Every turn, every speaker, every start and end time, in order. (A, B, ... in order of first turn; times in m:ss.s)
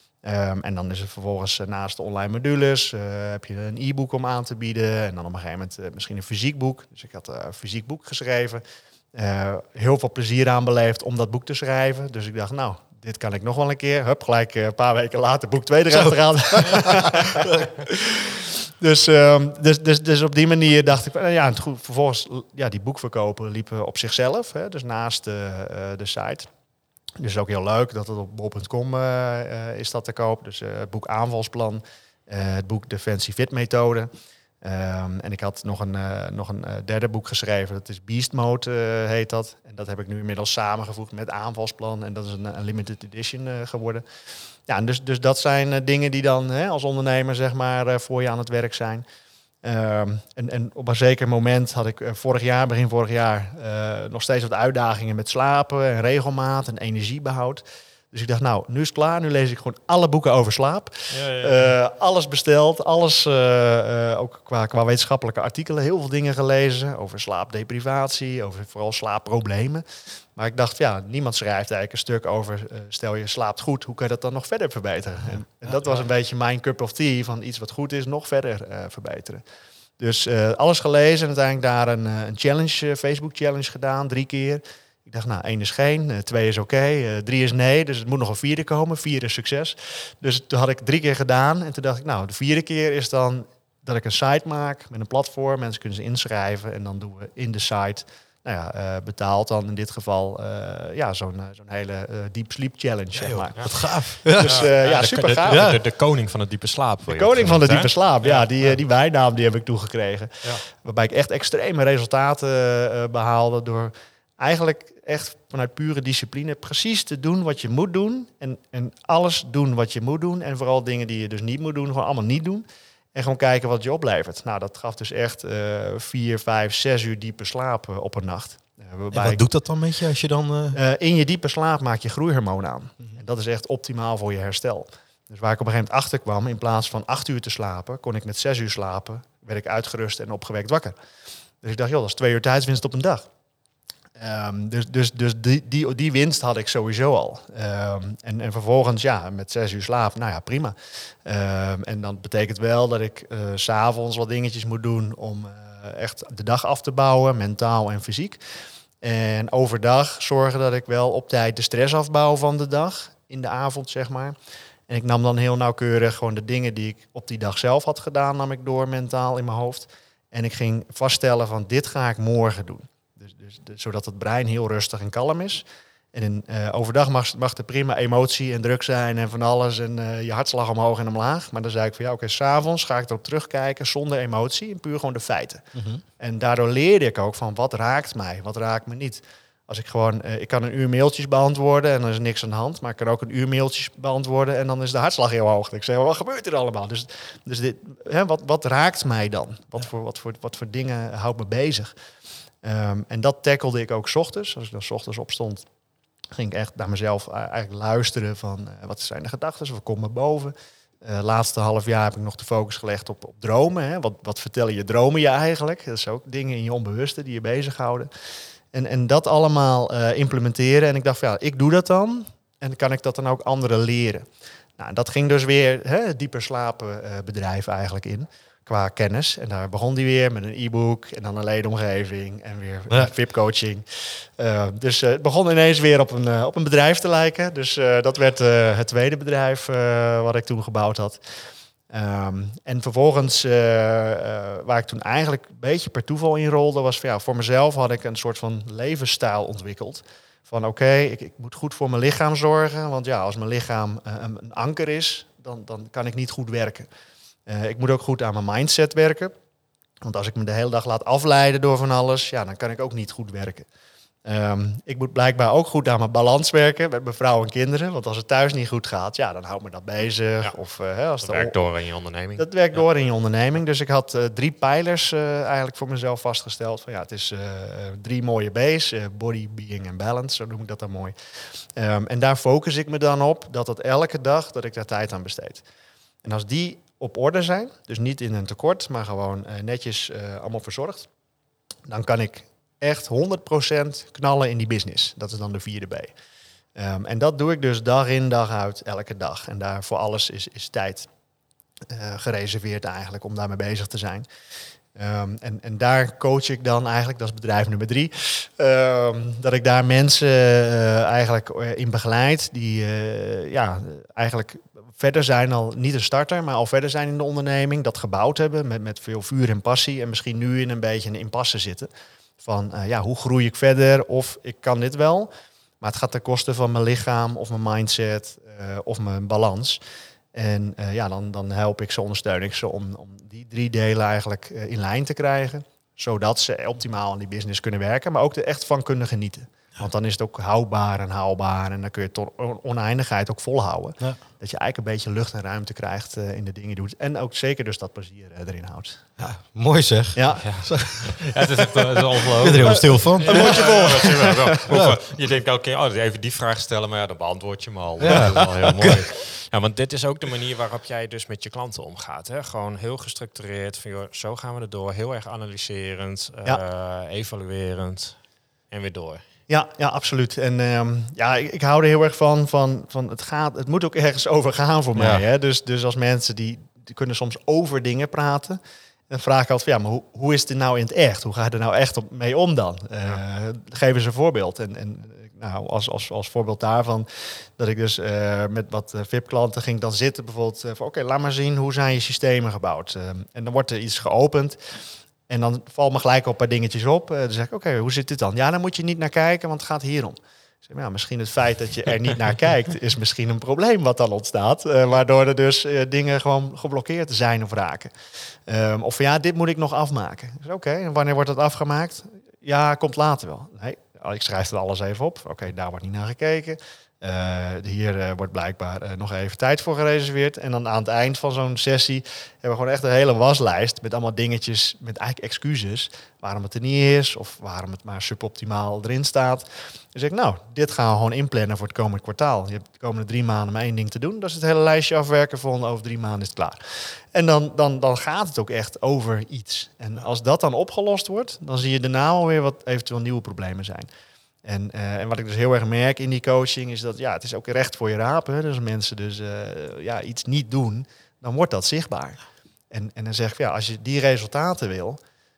0:00.2-0:08.6 A
0:09.1-0:26.5 A
0:15.9-0:17.7 B
0:27.2-0:34.1 A
0:34.6-0:44.0 A
0:44.7-0:49.0 A
0:49.6-1:09.8 A
1:01.1-1:01.7 C
1:10.4-1:19.4 A
1:20.0-1:45.7 A
1:43.2-1:44.7 B
1:44.3-1:48.5 C
1:45.5-1:45.8 B
1:47.1-2:09.5 A
2:09.1-2:10.8 B
2:10.7-2:21.0 A
2:21.6-2:23.2 A
2:24.2-2:38.4 A
2:39.0-2:44.4 A
2:44.9-3:05.6 A
3:05.8-3:06.0 B
3:06.2-3:21.9 A
3:22.6-3:25.6 A
3:26.3-3:38.1 A
3:38.7-3:44.3 A
3:44.8-4:01.2 A
4:01.9-4:16.9 A
4:17.5-4:19.3 A
4:20.0-4:23.7 A
4:24.2-4:31.6 A
4:31.2-4:32.8 C
4:32.4-4:41.1 A
4:41.8-4:45.6 A
4:46.2-4:51.1 A
4:51.9-4:56.1 A
4:56.8-5:01.1 A
5:01.9-5:04.3 A
5:05.0-5:21.9 A
5:22.4-5:29.8 A
5:30.3-5:49.0 A
5:49.2-5:51.5 B
5:50.2-5:50.5 A
5:50.4-6:08.2 C
5:52.3-5:55.0 B
5:53.2-5:54.5 A
5:58.0-5:59.0 B
6:08.7-6:09.2 C
6:09.5-6:34.6 A
6:15.0-6:15.2 B
6:35.3-6:47.9 A
6:48.5-7:23.9 A
7:24.4-7:35.0 A